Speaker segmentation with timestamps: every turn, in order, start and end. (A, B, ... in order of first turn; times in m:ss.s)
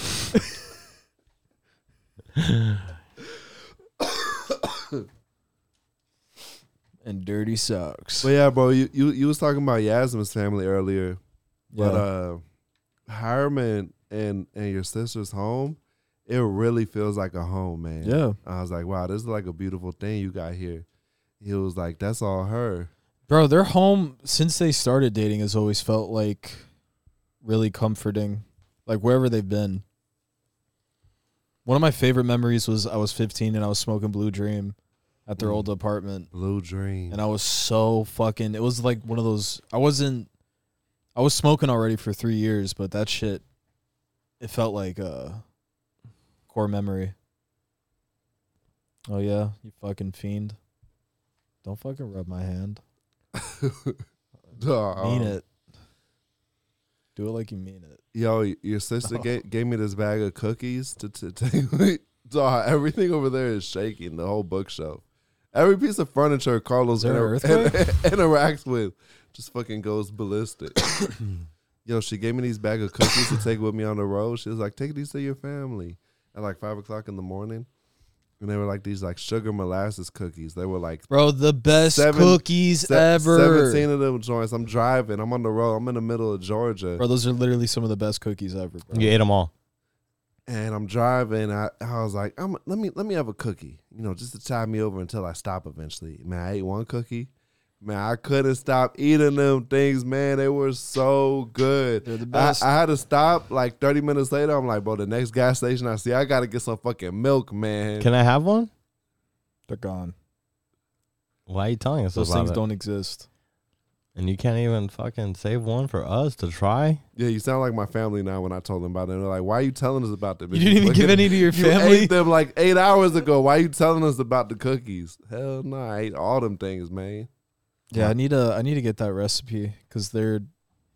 0:02.4-0:02.8 A
0:04.0-0:05.0 B
0:07.0-0:08.3 C
0:08.2-0:11.2 B
0:11.7-0:12.0 C
0:11.7-0:12.4 B
0:13.1-0:20.8 B
0:18.0-0:18.4 C
0:21.4-0:22.9 B
0:23.3-0:26.6 C
0:27.4-0:29.8 C
0:31.6-0:34.8 C
0:35.3-0:36.3 C
0:35.4-0:35.7 B
0:36.3-0:37.2 B
0:37.1-0:40.3 C
0:41.1-0:43.4 C
0:44.4-0:45.4 C
0:46.5-0:47.1 C
0:49.1-0:50.6 C
0:51.6-0:52.8 C
0:53.3-0:54.0 B
0:54.6-0:55.4 B
0:55.0-0:55.4 C
0:57.2-0:58.0 C
0:58.1-1:05.0 B
1:05.5-1:10.8 B
1:07.0-1:07.8 C
1:11.8-1:17.7 B
1:18.4-1:21.1 B
1:21.1-1:23.9 C
1:21.8-1:27.0 B
1:27.0-1:29.1 C
1:28.9-1:29.5 A
1:30.5-1:48.1 B
1:42.0-1:42.7 C
1:48.0-1:48.7 A
1:49.7-1:50.1 C
1:51.5-1:52.6 A
1:52.1-1:53.3 C
1:54.2-1:57.0 A
1:57.2-2:07.3 B
2:00.5-2:02.1 C
2:07.9-2:10.5 C